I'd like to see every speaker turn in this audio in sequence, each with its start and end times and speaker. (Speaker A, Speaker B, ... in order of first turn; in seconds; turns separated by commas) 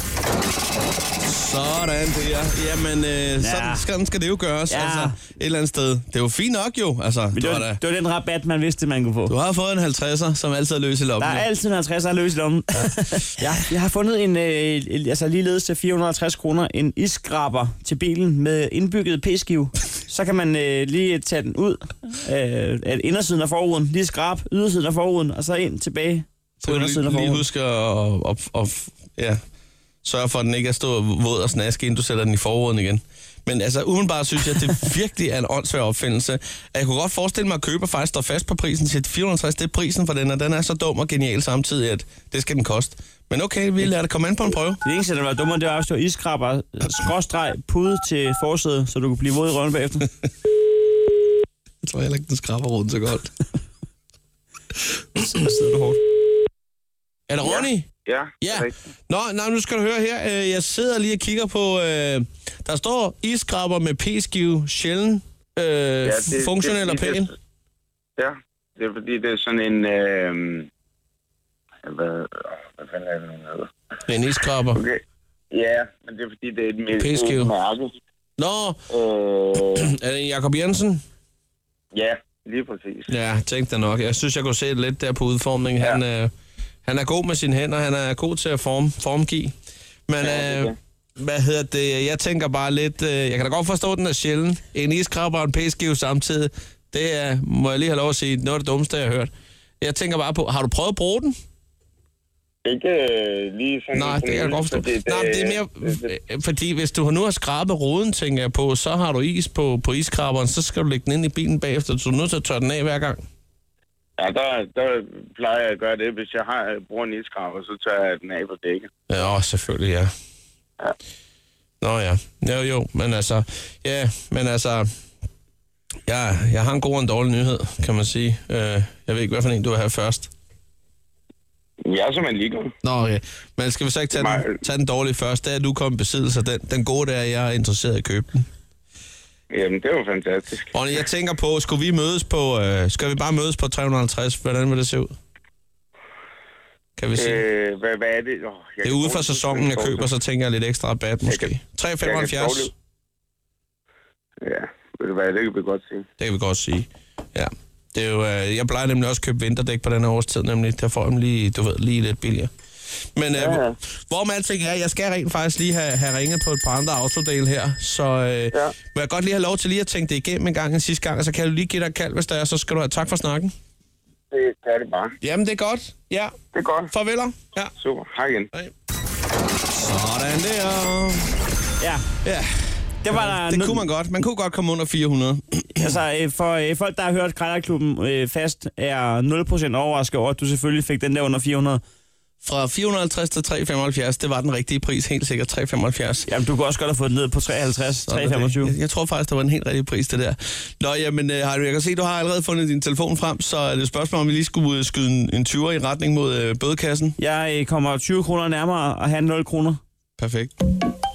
Speaker A: 1.2-7.8, Speaker B: 3.4-3.9, Speaker B: 4.7-5.2, Speaker B: 7.3-9.3, Speaker A: 9.3-11.5, Speaker B: 11.2-27.4, Speaker A: 26.6-29.4, Speaker A: 30.0-44.8, Speaker B: 44.8-50.1, Speaker A: 51.8-53.3, Speaker B: 55.1-56.0, Speaker A: 57.3-57.9, Speaker C: 57.4-58.8, Speaker A: 58.4-67.3, Speaker C: 66.0-67.3, Speaker C: 68.2-70.7, Speaker C: 71.8-73.7, Speaker A: 74.1-74.8, Speaker C: 74.8-77.9, Speaker A: 77.0-77.5, Speaker A: 78.4-78.8, Speaker C: 78.9-79.9, Speaker A: 79.6-81.0, Speaker C: 81.9-83.1, Speaker A: 83.1-86.3, Speaker A: 86.8-89.5, Speaker A: 90.1-101.4, Speaker C: 90.2-90.8, Speaker C: 102.7-106.1, Speaker A: 103.9-113.2, Speaker C: 114.2-118.9, Speaker A: 119.1-120.1, Speaker A: 121.8-124.9, Speaker A: 126.1-130.3, Speaker C: 131.8-132.7, Speaker A: 132.8-138.4, Speaker C: 134.2-134.6, Speaker C: 139.5-140.8, Speaker A: 140.7-145.1, Speaker A: 147.0-147.4, Speaker C: 147.2-150.1, Speaker A: 148.8-152.7, Speaker C: 151.2-152.7, Speaker C: 154.4-156.1, Speaker A: 156.2-162.5, Speaker A: 163.2-173.5, Speaker C: 163.4-163.8, Speaker C: 174.3-175.2, Speaker A: 175.2-176.4, Speaker C: 176.5-176.9, Speaker A: 176.9-177.7, Speaker C: 177.8-178.5, Speaker A: 179.7-181.4, Speaker B: 181.8-182.1, Speaker B: 183.0-183.9, Speaker A: 183.1-185.9, Speaker B: 185.8-191.8, Speaker A: 192.4-196.3, Speaker B: 196.2-198.8, Speaker A: 198.1-207.2, Speaker B: 207.2-209.8, Speaker A: 210.2-210.5